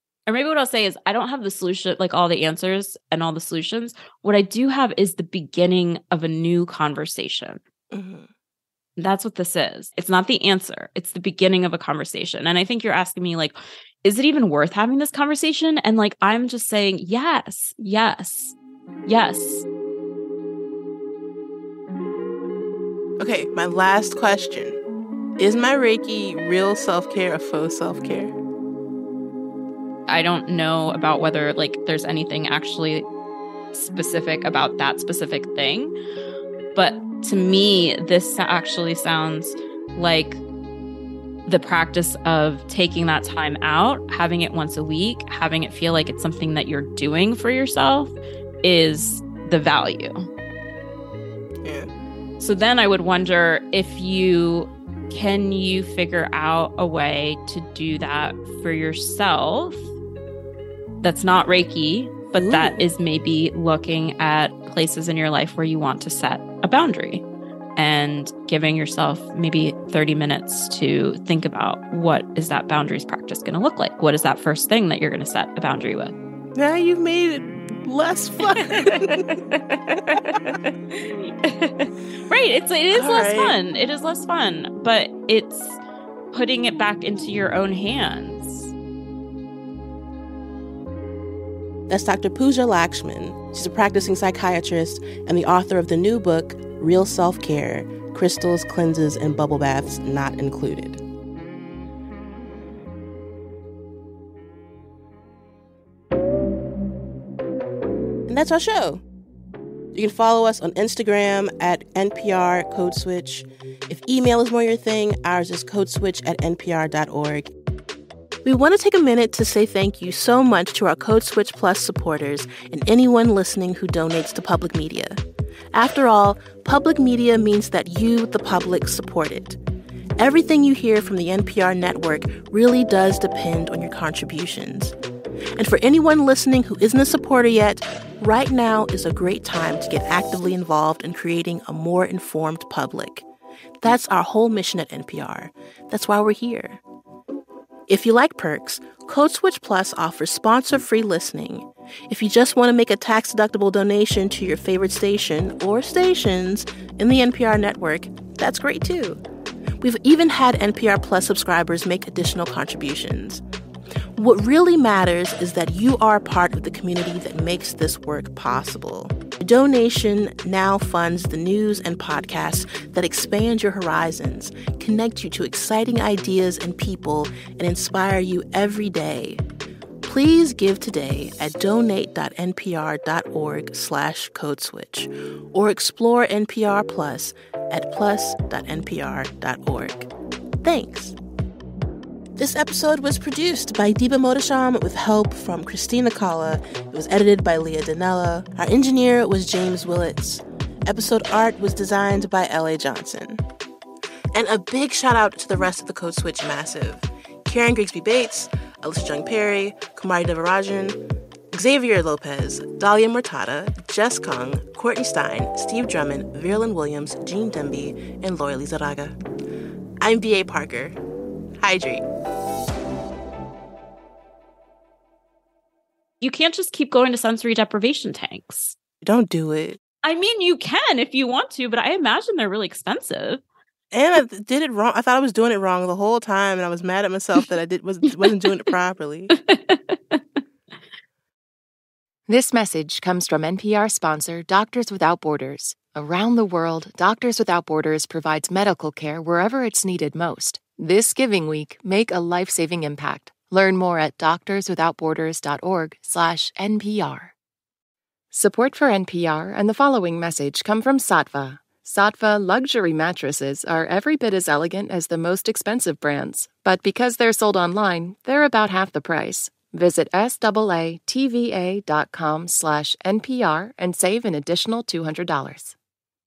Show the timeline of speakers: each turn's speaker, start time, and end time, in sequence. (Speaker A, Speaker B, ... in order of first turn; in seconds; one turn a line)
Speaker A: 0.3-7.6
Speaker B: 7.9-8.3
Speaker A: 9.0-18.6
Speaker A: 19.1-19.6
Speaker B: 23.2-24.8
Speaker B: 25.4-28.3
Speaker A: 30.1-33.1
Speaker A: 33.7-35.9
Speaker A: 36.7-40.4
Speaker A: 41.5-50.3
Speaker B: 51.6-51.9
Speaker A: 52.4-59.9
Speaker A: 61.0-67.2
Speaker B: 62.3-62.8
Speaker A: 67.8-76.2
Speaker B: 76.5-80.6
Speaker A: 78.7-79.4
Speaker A: 80.9-85.8
Speaker B: 82.9-83.6
Speaker A: 86.3-88.7
Speaker B: 91.9-101.0
Speaker B: 108.3-109.0
Speaker B: 109.9-117.5
Speaker B: 118.4-125.2
Speaker B: 125.7-129.6
Speaker B: 130.2-134.9
Speaker B: 135.6-143.2
Speaker B: 143.8-146.8
Speaker B: 147.9-159.2
Speaker B: 159.8-163.4
Speaker B: 164.2-179.4
Speaker B: 180.0-190.1
Speaker B: 190.6-191.2
Speaker B: 192.4-203.4
Speaker B: 204.3-211.0
Speaker B: 211.5-219.2
Speaker B: 220.0-221.0
Speaker B: 221.6-222.1
Speaker A: 226.2-228.8
Speaker B: 229.0-229.8
Speaker A: 230.0-233.4
Speaker B: 233.9-239.3
Speaker A: 239.3-240.4
Speaker C: 242.3-257.3
Speaker C: 258.3-275.8